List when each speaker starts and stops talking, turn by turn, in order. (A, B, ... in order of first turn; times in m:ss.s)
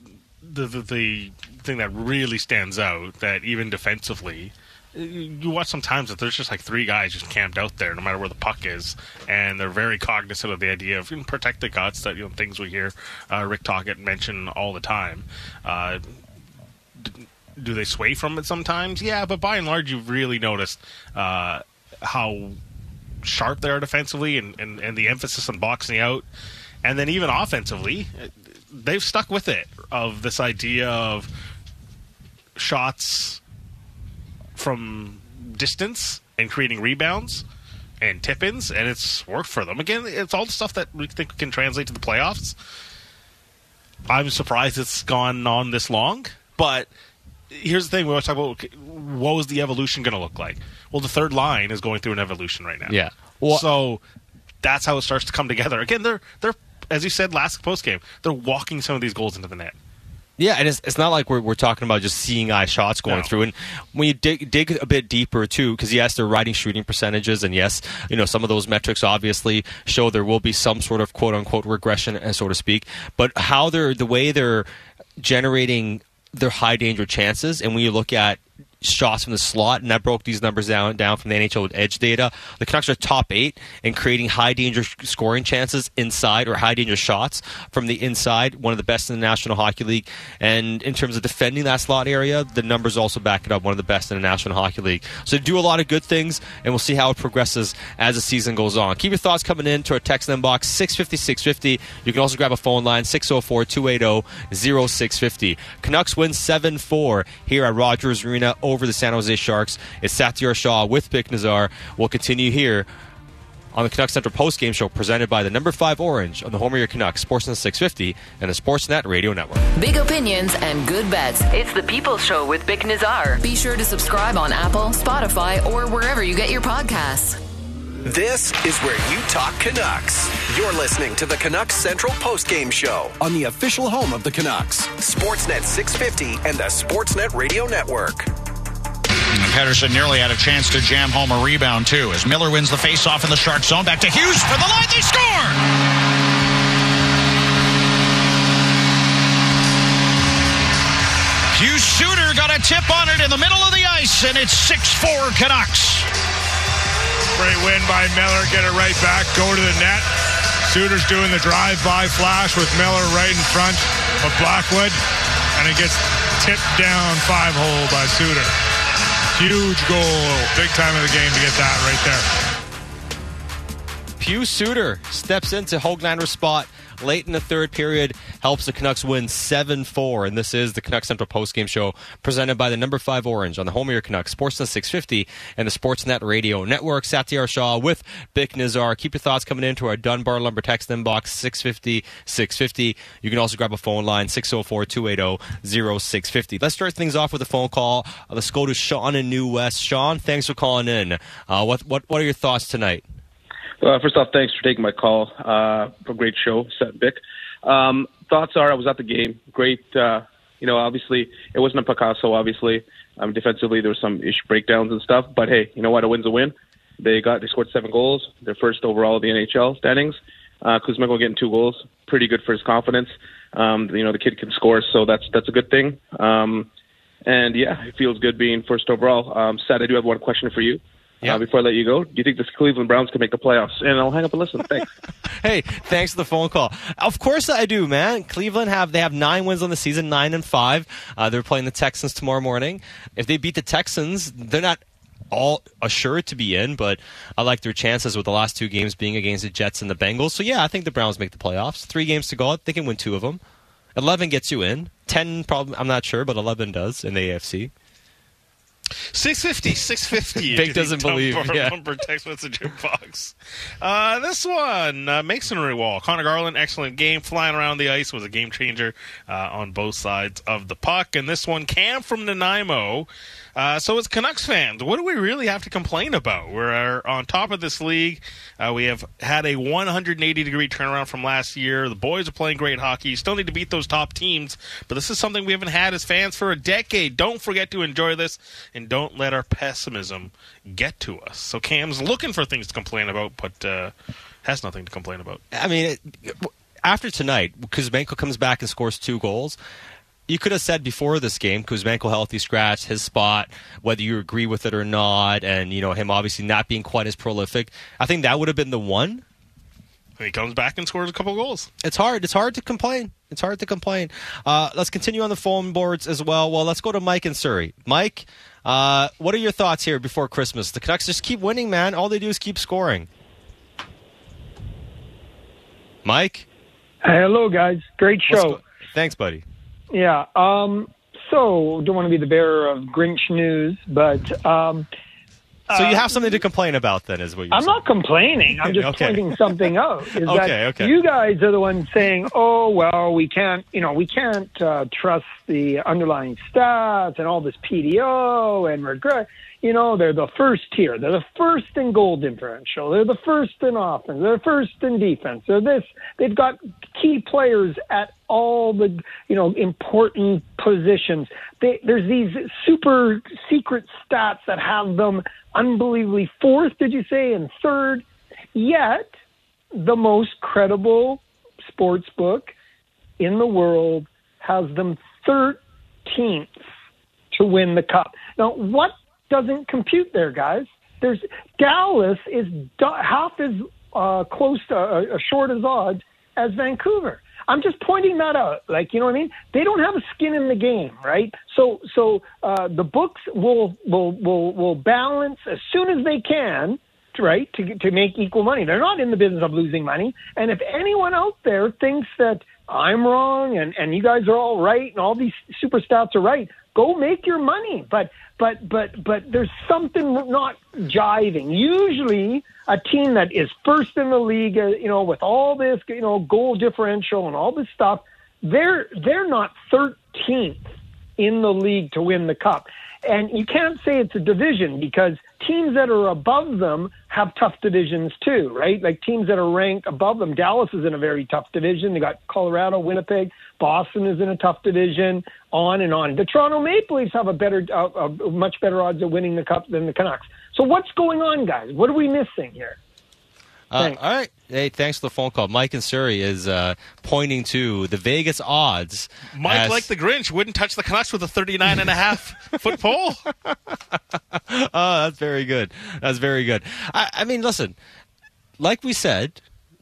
0:00.4-0:16.1 A
0:17.0-0:22.6 A
0:23.2-0:26.2 A
0:26.8-0:31.3 A
0:32.6-0:33.4 A
0:34.6-0:37.4 A
0:38.0-0:42.6 A
0:44.1-0:46.9 A
0:47.5-0:53.0 A
0:52.9-0:53.6 B
0:53.5-0:54.0 A
0:54.6-0:59.8 A
1:00.4-1:14.7 B
1:15.2-1:52.9 B
1:53.7-1:59.6 B
1:59.8-2:07.4 C
2:08.0-2:18.3 D
2:19.3-2:25.6 E
2:31.5-2:36.1 E
2:37.4-2:40.1 F
2:40.7-2:45.0 F
2:45.6-2:48.5 F
2:49.3-2:52.3 F
2:54.2-3:23.0 B
3:23.8-3:46.7 G
3:47.3-3:54.9 G
3:55.4-4:04.8 B
4:05.3-4:13.4 B
4:14.0-4:17.7 B
4:19.1-4:53.9 A
4:20.5-4:21.8 B
4:54.4-4:55.4 A
4:55.5-4:59.6 B
5:00.3-5:09.2 B
5:10.2-5:11.7 A
5:11.8-5:23.1 B
5:26.0-5:26.5 B
5:27.0-5:28.6 H
5:28.3-5:29.4 B
5:29.9-5:34.9 H
5:35.7-5:36.4 H
5:35.7-5:37.8 B
5:37.5-6:08.0 H
5:38.6-5:39.2 B
5:40.2-5:40.9 B
6:08.6-6:09.1 H
6:09.8-6:12.5 H
6:13.2-6:16.6 H
6:17.3-7:00.6 H
7:01.2-7:22.8 H
7:23.7-7:29.9 B
7:29.3-7:33.2 A
7:34.3-7:37.8 B
7:38.6-7:39.4 B